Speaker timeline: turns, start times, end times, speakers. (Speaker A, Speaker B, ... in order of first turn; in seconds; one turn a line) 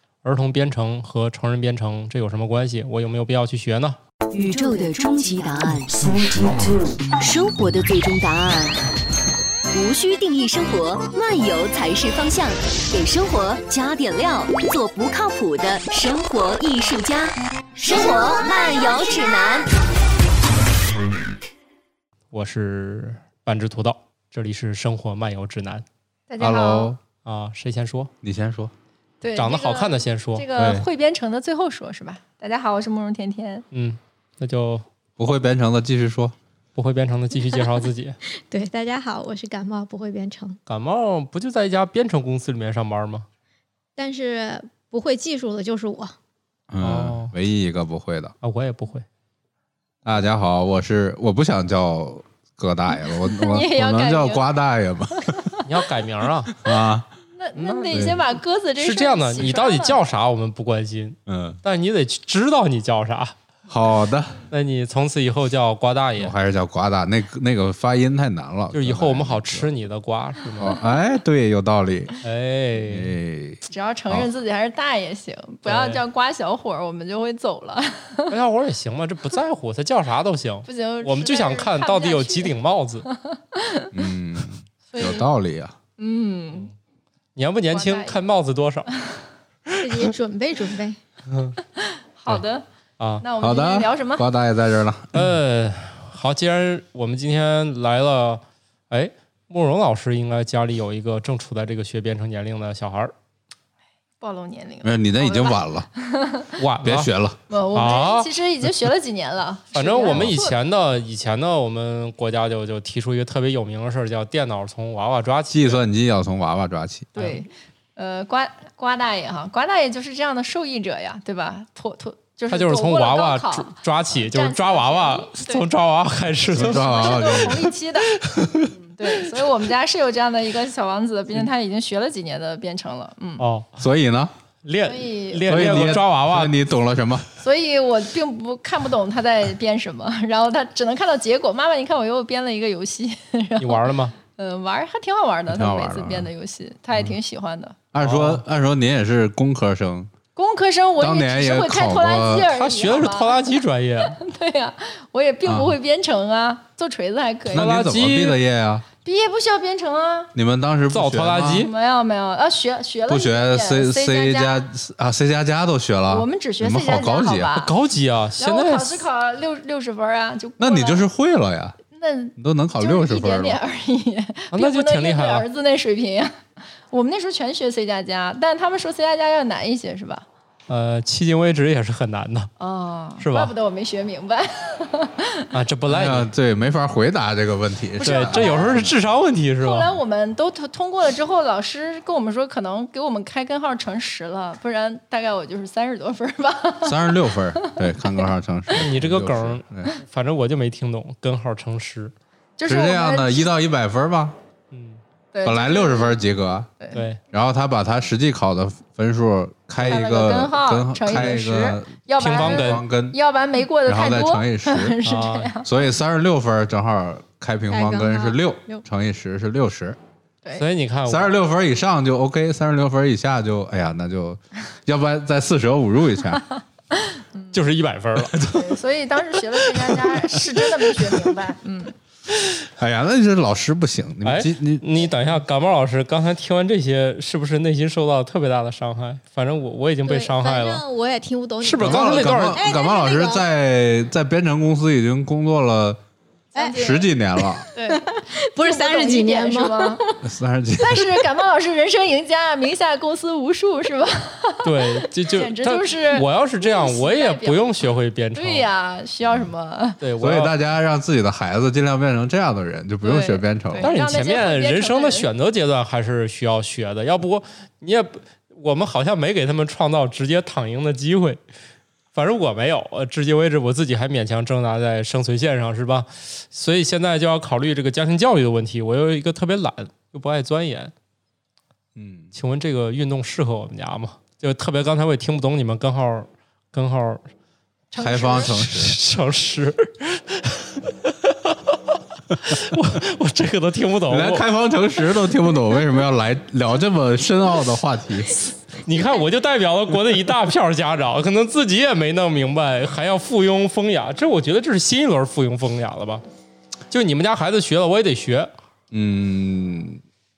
Speaker A: 0.2-4.0
Speaker B: 4.3-8.8
Speaker B: 9.7-19.7
Speaker A: 22.3-25.8
Speaker C: 26.3-26.9
Speaker D: 26.4-27.0
Speaker A: 27.2-28.1
Speaker D: 28.2-28.7
Speaker C: 29.2-33.6
Speaker A: 29.3-30.5
Speaker D: 30.6-30.9
Speaker A: 33.7-34.8
Speaker D: 35.2-36.3
Speaker A: 36.7-38.2
Speaker E: 38.5-40.6
Speaker A: 40.6-43.2
Speaker E: 44.0-46.1
Speaker D: 46.7-48.3
Speaker A: 46.8-47.3
Speaker A: 48.4-49.0
Speaker D: 50.0-55.5
Speaker C: 53.2-54.5
Speaker C: 55.2-55.6
Speaker A: 55.6-56.5
Speaker D: 56.5-57.1
Speaker C: 57.4-60.0
Speaker A: 57.5-58.2
Speaker A: 58.8-63.4
Speaker D: 61.3-61.6
Speaker D: 63.7-64.5
Speaker A: 64.5-66.3
Speaker D: 66.2-69.7
Speaker A: 68.7-70.7
Speaker D: 70.6-72.2
Speaker A: 72.2-73.1
Speaker D: 72.8-74.3
Speaker C: 73.7-78.3
Speaker A: 75.7-76.0
Speaker A: 78.3-83.1
Speaker C: 80.7-83.9
Speaker D: 83.9-85.8
Speaker C: 84.9-85.3
Speaker C: 86.0-86.7
Speaker A: 87.3-88.9
Speaker C: 87.7-88.2
Speaker E: 89.8-91.0
Speaker A: 91.3-91.5
Speaker C: 91.8-92.6
Speaker A: 93.0-93.2
Speaker C: 93.2-94.3
Speaker D: 93.4-95.3
Speaker A: 95.1-103.1
Speaker C: 104.2-106.6
Speaker D: 104.8-105.9
Speaker A: 106.5-107.1
Speaker D: 106.8-107.4
Speaker C: 107.5-110.5
Speaker A: 107.7-108.3
Speaker A: 109.7-115.8
Speaker D: 115.5-117.1
Speaker C: 117.1-125.6
Speaker A: 117.2-117.4
Speaker A: 122.5-127.4
Speaker D: 126.5-127.7
Speaker C: 126.5-133.4
Speaker A: 128.2-128.7
Speaker A: 133.4-133.7
Speaker D: 133.8-134.3
Speaker A: 134.6-136.5
Speaker C: 134.8-136.0
Speaker D: 135.5-137.3
Speaker C: 137.4-147.8
Speaker A: 143.6-144.1
Speaker D: 145.5-146.3
Speaker D: 147.9-150.1
Speaker A: 148.0-148.4
Speaker C: 150.3-157.8
Speaker D: 151.0-152.5
Speaker A: 152.5-154.2
Speaker D: 155.4-155.7
Speaker D: 157.5-158.8
Speaker A: 157.5-158.4
Speaker C: 159.0-160.3
Speaker D: 160.3-161.6
Speaker A: 160.9-161.7
Speaker C: 161.4-164.7
Speaker D: 163.1-167.6
Speaker C: 166.1-167.7
Speaker A: 167.6-169.1
Speaker C: 168.4-171.1
Speaker D: 170.6-171.8
Speaker C: 171.9-176.3
Speaker D: 172.4-173.6
Speaker A: 174.5-175.4
Speaker C: 176.9-180.2
Speaker A: 180.7-182.5
Speaker C: 182.6-185.5
Speaker A: 183.2-183.5
Speaker A: 185.5-186.3
Speaker D: 185.8-188.9
Speaker C: 188.0-188.9
Speaker A: 188.0-189.9
Speaker C: 189.6-198.3
Speaker D: 196.8-199.9
Speaker A: 198.7-202.1
Speaker C: 202.6-203.5
Speaker D: 202.7-204.4
Speaker A: 204.7-205.0
Speaker C: 205.3-206.2
Speaker D: 205.4-206.7
Speaker A: 206.9-207.2
Speaker D: 207.3-213.2
Speaker C: 209.8-215.7
Speaker A: 212.2-212.8
Speaker D: 213.8-215.0
Speaker A: 215.0-215.5
Speaker D: 215.6-220.0
Speaker E: 217.7-218.4
Speaker A: 220.6-221.3
Speaker D: 221.1-226.4
Speaker C: 226.9-227.5
Speaker A: 227.5-228.4
Speaker D: 228.3-228.7
Speaker C: 228.4-231.9
Speaker D: 229.6-231.2
Speaker D: 232.8-234.8
Speaker A: 234.2-240.8
Speaker E: 240.1-243.4
Speaker A: 241.6-242.6
Speaker D: 241.8-246.0
Speaker C: 246.5-247.1
Speaker D: 246.7-247.7
Speaker E: 247.4-250.2
Speaker C: 247.7-250.1
Speaker D: 250.2-251.2
Speaker C: 250.8-260.0
Speaker A: 254.6-258.7
Speaker A: 260.0-260.5
Speaker D: 260.2-263.9
Speaker C: 263.0-265.3
Speaker A: 263.8-271.4
Speaker A: 272.1-280.9
Speaker D: 281.9-282.3
Speaker A: 282.3-287.3
Speaker C: 287.9-288.6
Speaker D: 288.0-288.9
Speaker A: 288.6-294.5
Speaker D: 294.1-298.6
Speaker A: 298.8-306.2
Speaker A: 306.9-308.5
Speaker D: 308.9-310.0